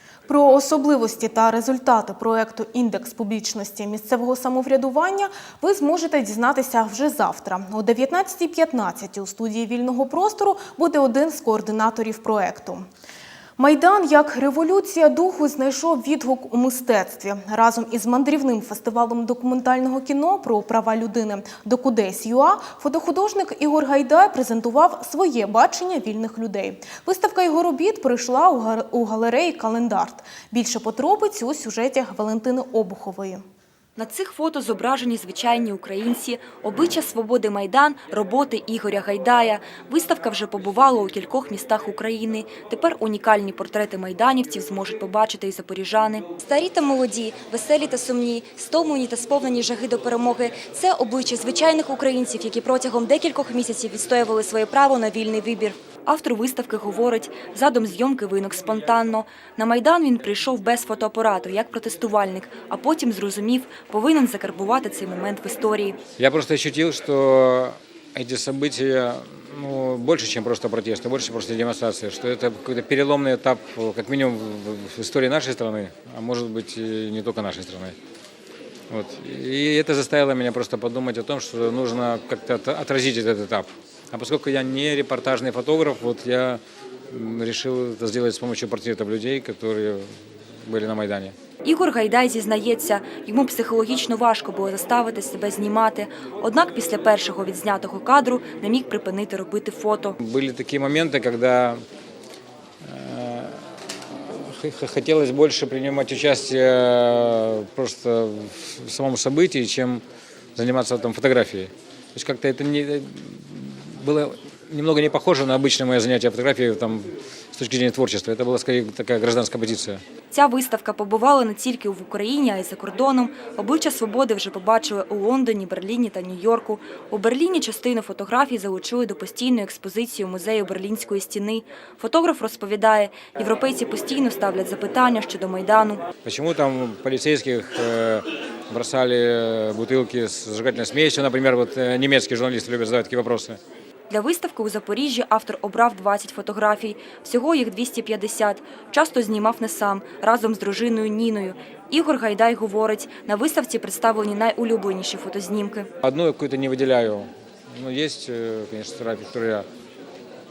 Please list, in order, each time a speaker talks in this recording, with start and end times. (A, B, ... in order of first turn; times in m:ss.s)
0:00.3-0:12.8 A
0:13.6-0:33.4 A
0:34.0-1:06.0 B
1:06.2-1:17.9 C
1:18.9-1:26.6 C
1:27.1-1:30.1 C
1:30.6-1:31.3 C
1:31.6-1:40.1 B
1:40.2-1:41.8 C
1:42.8-1:43.5 C
1:44.6-1:50.0 C
1:50.6-2:00.0 C
2:00.3-2:16.0 B
2:16.2-2:23.6 C
2:24.1-2:35.9 B
2:36.0-2:39.6 C